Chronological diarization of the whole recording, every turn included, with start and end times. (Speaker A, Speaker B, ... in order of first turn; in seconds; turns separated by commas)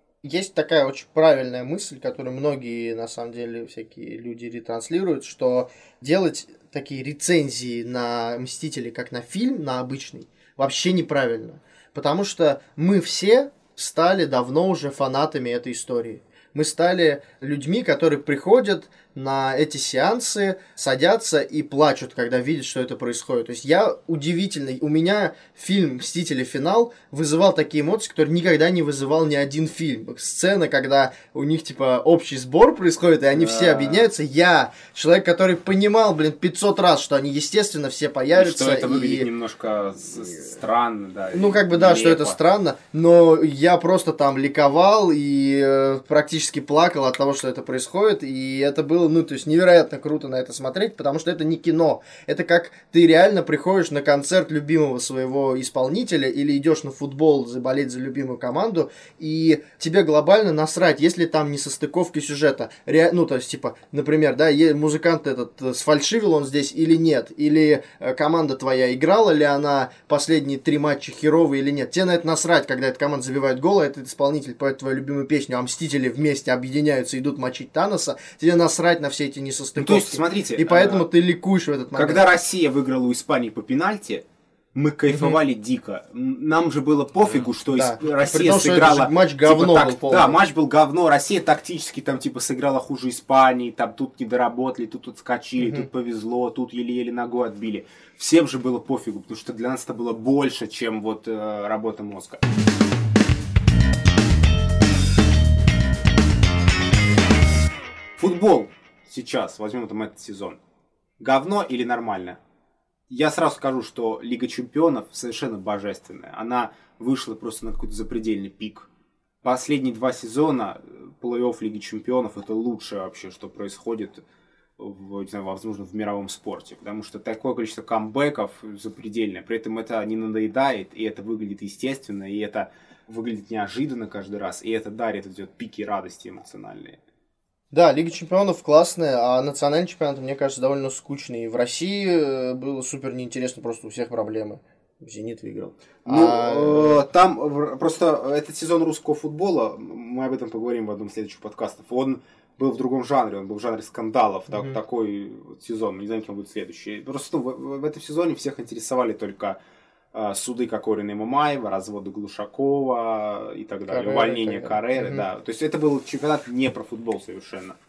Speaker A: 0.2-39.3, Speaker B: 33.3-34.1, Speaker B: 38.3-42.4, Speaker A: 41.3-82.2, Speaker B: 79.8-81.1, Speaker B: 81.9-102.4, Speaker A: 85.1-85.4, Speaker A: 87.7-90.4, Speaker A: 95.6-95.8, Speaker B: 108.2-110.6, Speaker B: 111.2-112.4, Speaker B: 113.1-118.9, Speaker B: 119.4-124.2, Speaker B: 124.8-137.0, Speaker A: 137.7-147.0, Speaker B: 146.1-159.6, Speaker B: 160.1-167.8, Speaker A: 163.9-165.2